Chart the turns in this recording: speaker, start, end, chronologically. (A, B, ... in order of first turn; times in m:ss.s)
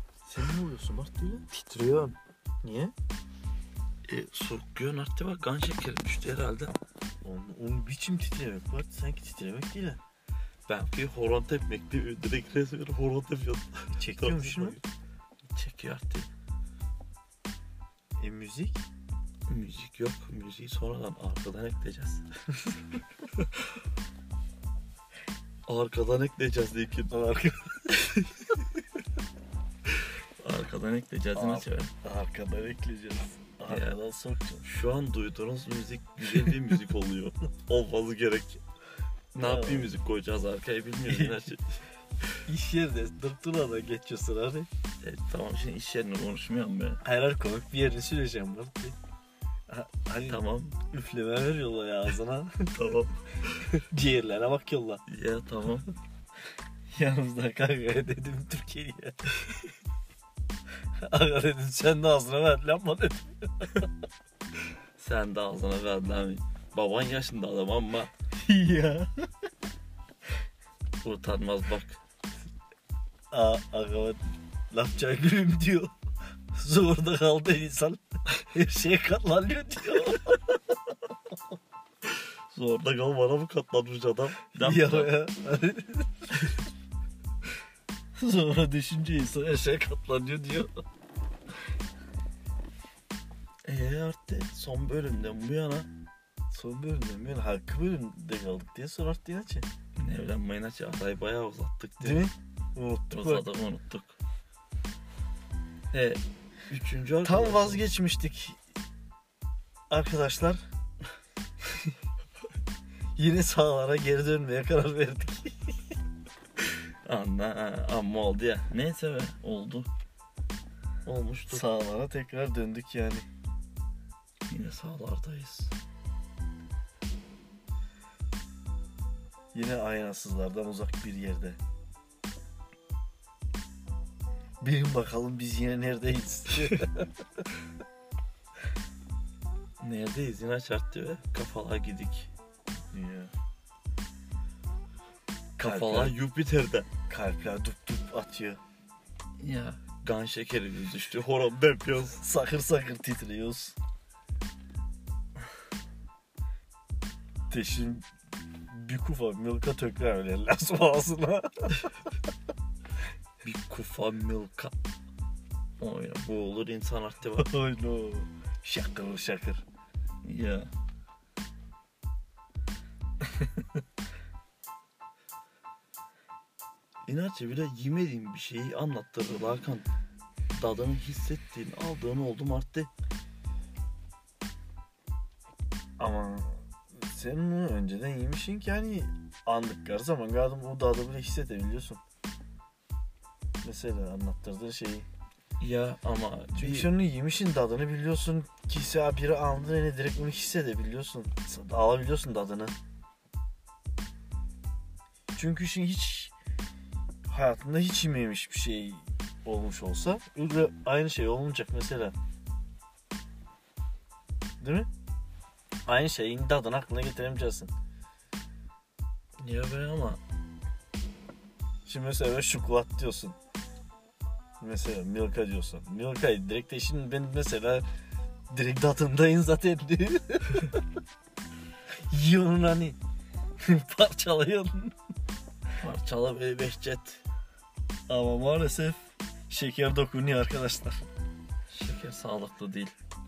0:00.2-0:01.5 A
0:01.5-0:02.2 B
0:02.6-0:02.9 A
0:04.1-0:06.7 B
0:07.2-0:10.0 A
0:10.7-0:14.8 B
0:13.9-0:14.8 A
0:15.5-0:16.3 B
0:18.2-0:18.8 A
0:19.5-0:22.2 B
0:25.6-0:27.1 B
0:27.1-0:28.2 A
0:30.4-0:31.9 B
0:31.3-0:34.6 A
0:33.7-0:33.9 B
0:34.6-0:38.6 B
0:39.3-0:41.6 B
0:39.4-0:39.9 A
0:41.1-0:41.4 A
0:42.4-0:44.7 A
0:45.0-0:47.0 B
0:47.0-0:49.0 A
0:49.7-0:52.7 A
0:50.3-0:50.8 B
0:52.7-0:53.6 B
0:53.7-0:55.0 A
0:55.1-0:55.9 B
0:56.9-0:59.2 A
1:01.0-1:03.9 A
1:05.0-1:08.1 B
1:08.4-1:09.2 A
1:11.0-1:12.0 B
1:13.3-1:14.2 A
1:14.7-1:15.9 A
1:16.5-1:20.6 A
1:22.2-1:25.1 B
1:24.6-1:26.2 A
1:26.4-1:26.6 B
1:28.2-1:30.7 A
1:33.6-1:35.9 B
1:36.5-1:39.6 A
1:40.0-1:42.3 B
1:42.0-1:43.5 A
1:43.1-1:44.2 B
1:45.9-1:47.8 B
1:47.2-1:48.6 A
1:49.9-1:50.6 A
1:53.2-1:55.6 A
1:57.0-1:59.9 B
2:01.0-2:01.6 B
2:01.5-2:03.2 A
2:04.5-2:05.7 B
2:09.5-2:11.6 A
2:14.6-2:17.1 A
2:19.8-2:22.3 B
2:22.9-2:23.3 A
2:25.6-2:26.2 A
2:25.6-2:26.9 B
2:27.1-2:28.6 A
2:29.4-2:32.2 B
2:32.2-2:33.8 A
2:37.5-2:38.0 A
2:38.7-2:41.9 A
2:43.4-2:44.7 B
2:45.8-2:47.5 B
2:47.3-2:49.6 A
2:50.2-2:50.7 B
2:57.0-2:59.9 B
3:00.5-3:02.9 B
3:06.0-3:12.0 A
3:13.6-3:15.0 A
3:15.6-3:16.9 B
3:16.5-3:22.7 A
3:25.3-3:26.3 A
3:27.2-3:32.1 A
3:34.6-3:34.9 A
3:35.8-3:37.7 A
3:39.4-3:40.2 B
3:41.8-3:43.3 A
3:44.6-3:47.8 A
3:48.5-3:50.7 A
3:52.1-3:53.0 A
3:53.6-3:54.9 A
3:55.8-3:57.2 B
3:58.1-4:01.0 A
4:01.7-4:02.9 B